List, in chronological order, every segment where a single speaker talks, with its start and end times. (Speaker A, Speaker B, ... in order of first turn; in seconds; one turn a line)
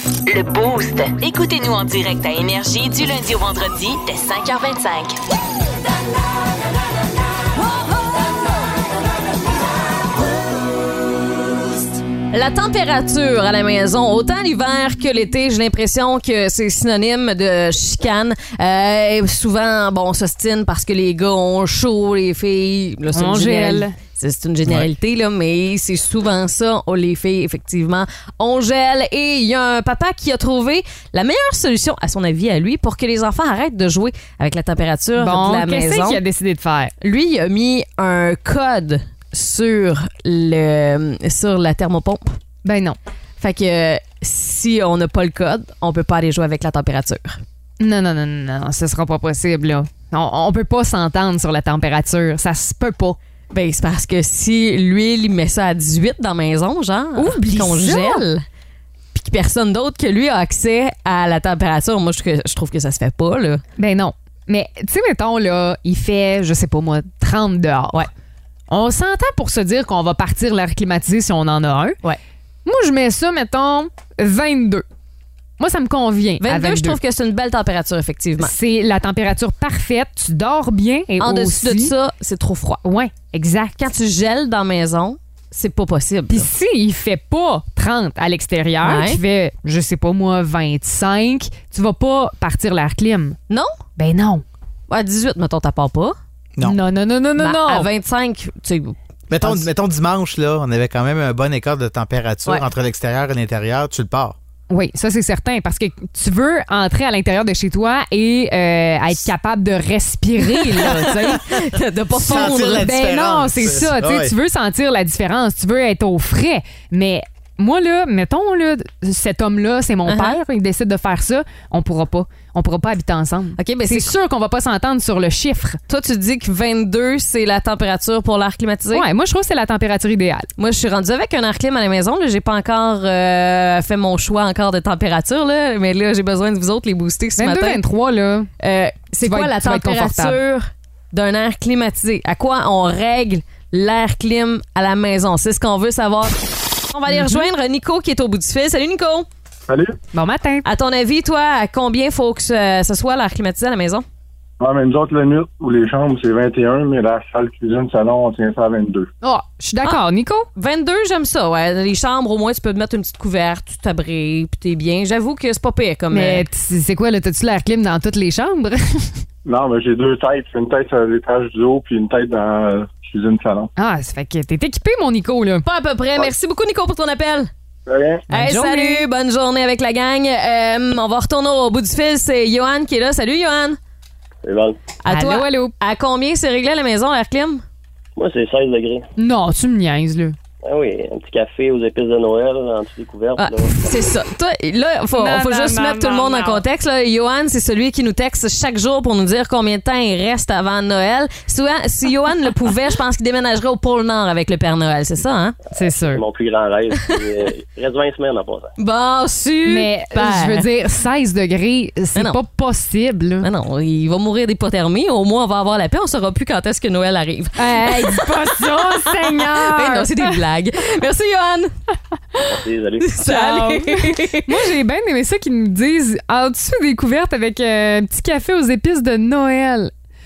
Speaker A: 0.3-5.2
Speaker B: 12.3-36.2
Speaker C: 23.1-23.9
Speaker C: 35.2-36.9
Speaker B: 37.0-42.3
Speaker C: 42.6-43.0
Speaker B: 43.4-47.4
Speaker C: 47.8-53.2
Speaker B: 53.5-58.4
Speaker C: 57.2-58.2
Speaker B: 59.1-63.6
Speaker C: 63.8-68.1
Speaker C: 68.7-72.0
Speaker C: 72.7-74.8
Speaker C: 75.6-77.0
Speaker B: 76.4-78.5
Speaker C: 78.4-81.9
Speaker B: 81.2-82.8
Speaker C: 82.8-83.8
Speaker B: 83.8-86.5
Speaker C: 86.3-93.4
Speaker B: 88.8-89.2
Speaker C: 94.0-94.4
Speaker B: 94.9-96.2
Speaker C: 96.6-97.9
Speaker B: 97.4-99.0
Speaker D: 99.3-104.4
Speaker C: 104.7-111.5
Speaker B: 110.4-112.9
Speaker D: 112.1-114.3
Speaker C: 112.3-125.8
Speaker B: 120.1-120.4
Speaker B: 123.6-124.1
Speaker B: 125.9-129.1
Speaker C: 128.9-130.5
Speaker B: 130.6-137.8
Speaker C: 137.4-138.5
Speaker B: 138.6-149.3
Speaker C: 139.2-140.4
Speaker C: 147.1-147.5
Speaker E: 149.7-150.0
Speaker C: 150.1-150.7
Speaker B: 150.7-154.1
Speaker E: 154.6-159.1
Speaker C: 159.2-160.5
Speaker B: 160.6-166.4
Speaker C: 166.1-169.2
Speaker E: 169.4-173.7
Speaker C: 173.8-175.7
Speaker B: 175.6-177.5
Speaker E: 177.9-178.2
Speaker C: 178.3-179.1
Speaker B: 178.3-183.8
Speaker F: 184.4-184.8
Speaker B: 185.0-187.6
Speaker C: 185.1-185.7
Speaker F: 188.2-189.1
Speaker C: 189.2-190.4
Speaker F: 190.6-194.1
Speaker B: 193.4-205.6
Speaker C: 195.2-196.6
Speaker C: 205.7-206.2
Speaker F: 206.0-208.7
Speaker B: 208.8-210.7
Speaker C: 209.7-213.5
Speaker B: 213.4-221.7
Speaker C: 217.6-220.4
Speaker F: 222.5-223.1
Speaker B: 223.0-224.5
Speaker C: 223.2-229.9